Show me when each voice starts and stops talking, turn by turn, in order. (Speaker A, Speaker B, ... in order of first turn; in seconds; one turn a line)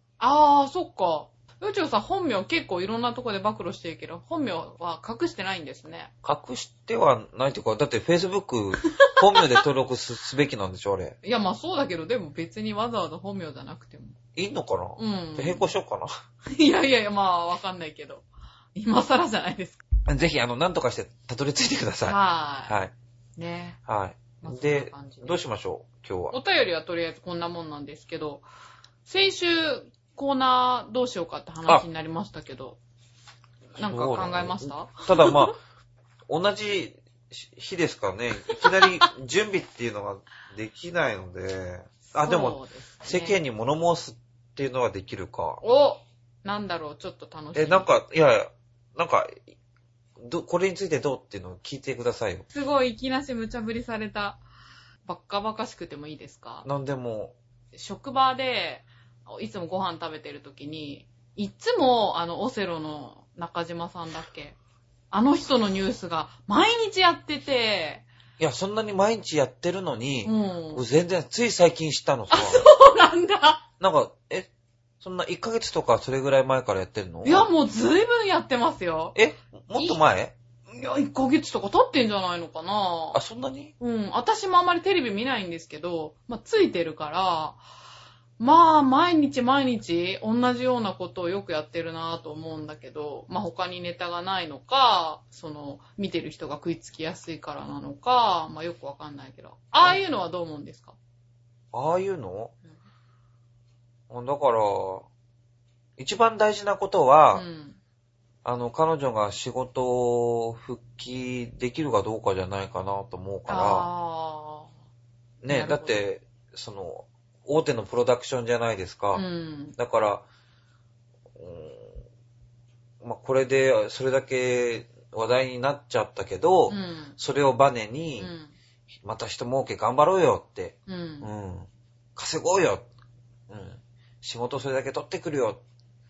Speaker A: 0.2-6.1
Speaker B: 6.2-11.2
Speaker A: 9.3-9.6
Speaker A: 11.2-14.2
Speaker B: 14.3-16.1
Speaker A: 15.0-15.7
Speaker A: 16.4-19.8
Speaker B: 20.1-22.9
Speaker A: 22.0-22.7
Speaker A: 23.4-23.8
Speaker B: 23.9-26.4
Speaker A: 24.4-25.4
Speaker A: 26.3-28.4
Speaker A: 29.1-32.8
Speaker A: 33.8-35.5
Speaker B: 33.8-35.6
Speaker B: 36.3-45.6
Speaker A: 42.1-43.4
Speaker A: 45.6-47.9
Speaker B: 47.5-49.4
Speaker B: 50.2-52.5
Speaker A: 52.5-54.4
Speaker A: 55.0-56.7
Speaker B: 56.6-57.3
Speaker A: 57.7-64.5
Speaker A: 65.1-68.0
Speaker B: 68.4-72.6
Speaker A: 70.2-70.8
Speaker A: 72.3-73.6
Speaker B: 73.8-74.5
Speaker B: 75.0-77.5
Speaker A: 77.2-79.2
Speaker B: 79.1-80.3
Speaker A: 80.7-83.2
Speaker B: 83.1-83.7
Speaker A: 83.8-87.6
Speaker A: 88.4-101.0
Speaker B: 101.7-102.5
Speaker B: 104.1-105.0
Speaker B: 106.0-107.4
Speaker A: 107.3-107.8
Speaker B: 108.4-113.9
Speaker A: 113.5-114.7
Speaker B: 115.4-119.2
Speaker A: 115.5-116.0
Speaker A: 119.1-119.8
Speaker B: 119.8-120.2
Speaker B: 121.4-122.0
Speaker B: 123.0-128.3
Speaker A: 126.7-127.2
Speaker A: 128.2-128.5
Speaker B: 129.0-132.8
Speaker A: 130.9-131.3
Speaker B: 133.5-135.6